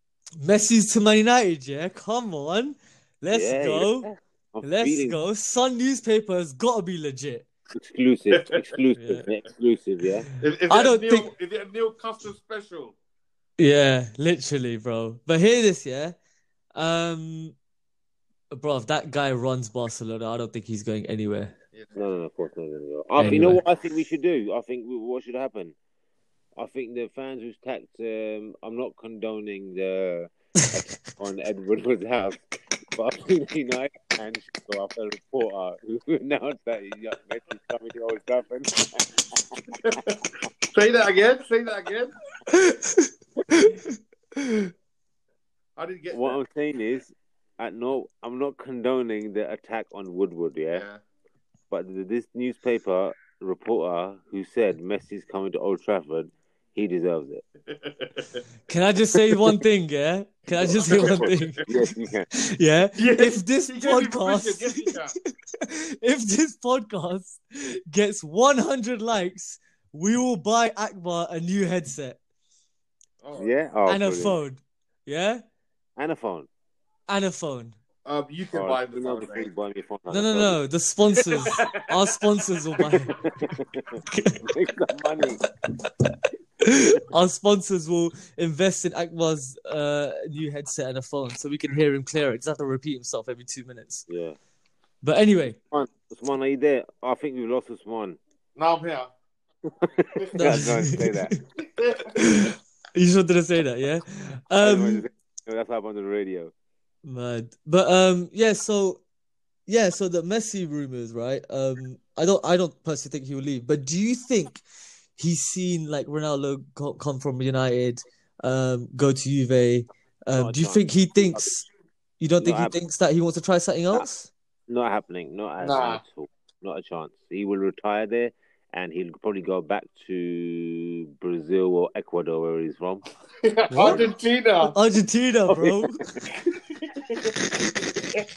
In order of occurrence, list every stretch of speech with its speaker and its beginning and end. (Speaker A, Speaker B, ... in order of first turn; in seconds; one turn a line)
Speaker A: 0.4-4.1
Speaker B: 3.3-5.2
Speaker A: 4.6-7.5
Speaker B: 7.8-10.3
Speaker A: 9.0-9.3
Speaker C: 10.4-13.0
Speaker A: 10.7-11.3
Speaker A: 13.6-16.1
Speaker A: 16.8-17.6
Speaker A: 18.5-21.6
Speaker B: 21.9-25.8
Speaker A: 23.2-23.6
Speaker B: 26.6-32.4
Speaker B: 32.9-39.6
Speaker C: 39.8-40.2
Speaker C: 40.7-42.1
Speaker A: 42.5-44.7
Speaker C: 45.8-46.4
Speaker B: 46.1-50.9
Speaker C: 50.7-51.0
Speaker B: 51.7-57.4
Speaker C: 57.8-58.4
Speaker A: 58.7-65.0
Speaker C: 60.6-61.6
Speaker B: 60.9-62.3
Speaker C: 63.0-65.1
Speaker A: 65.6-72.2
Speaker C: 73.2-73.5
Speaker B: 73.3-74.4
Speaker A: 73.9-75.4
Speaker B: 76.0-76.5
Speaker A: 77.1-77.8
Speaker C: 78.1-79.5
Speaker B: 78.5-80.6
Speaker A: 80.1-83.1
Speaker C: 81.5-81.8
Speaker B: 83.1-85.4
Speaker A: 84.1-84.4
Speaker A: 86.6-94.1
Speaker B: 94.1-94.4
Speaker A: 95.0-95.6
Speaker B: 95.6-98.2
Speaker C: 98.6-99.1
Speaker B: 99.7-101.3
Speaker A: 100.3-101.4
Speaker C: 101.8-102.3
Speaker A: 102.0-105.0
Speaker B: 104.6-106.5
Speaker A: 107.0-109.0
Speaker A: 109.7-114.6
Speaker A: 115.2-121.7
Speaker B: 120.3-121.6
Speaker A: 122.2-124.3
Speaker B: 122.4-122.8
Speaker B: 124.7-133.0
Speaker C: 125.6-126.0
Speaker C: 133.4-134.8
Speaker A: 133.7-134.0
Speaker A: 134.6-136.0
Speaker B: 135.5-135.8
Speaker C: 136.5-137.4